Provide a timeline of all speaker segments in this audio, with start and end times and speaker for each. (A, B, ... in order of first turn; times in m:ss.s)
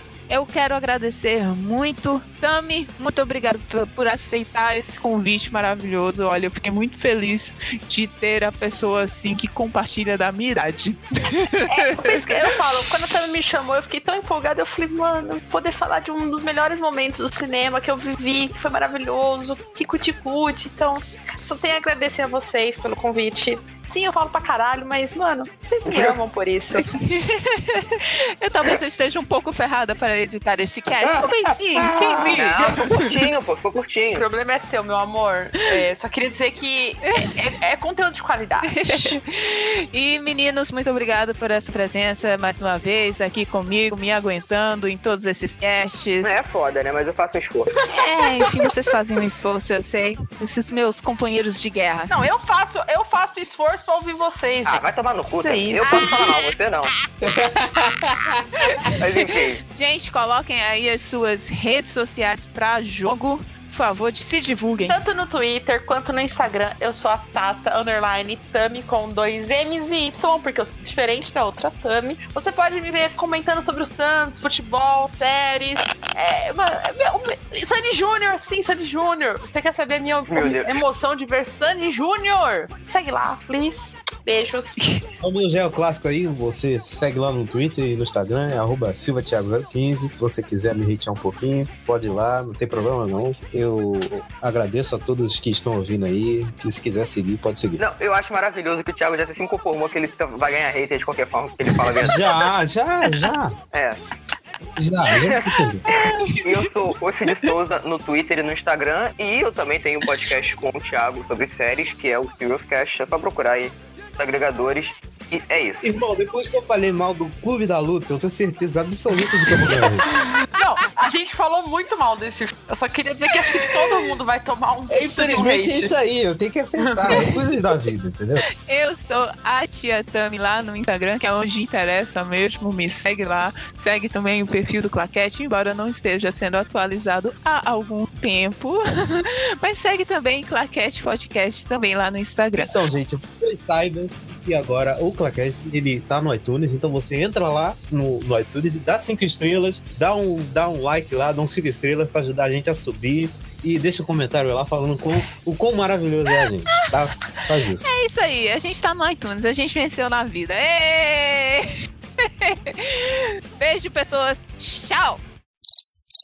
0:00.3-0:12.5 A
0:11.7-0:26.9 B
0:25.9-0:26.2 C
0:26.8-0:33.1 A
0:32.2-0:34.2 C
0:34.1-0:39.2 B
0:37.1-0:37.4 A
0:38.7-0:46.3 A
0:46.2-0:47.8 C
0:47.9-0:52.1 A
0:52.1-0:54.8 B
0:54.6-0:56.9 C
0:55.4-0:56.4 B
0:55.8-0:56.5 A
0:57.2-1:05.0 A
0:58.9-0:59.6 C
1:04.8-1:24.8 B
1:20.3-1:20.8 C
1:24.8-1:25.2 A
1:25.2-1:37.8 D
1:37.8-1:42.2 C
1:42.0-1:43.6 D
1:43.7-1:44.0 C
1:44.8-1:45.8 D
1:45.2-1:55.9 C
1:45.9-1:46.6 A
1:55.8-2:00.1 D
2:00.1-2:05.9 B
2:03.4-2:03.6 A
2:04.9-2:08.4 D
2:06.8-2:07.2 B
2:08.6-2:22.7 A
2:22.6-2:37.9 D
2:37.8-2:45.2 A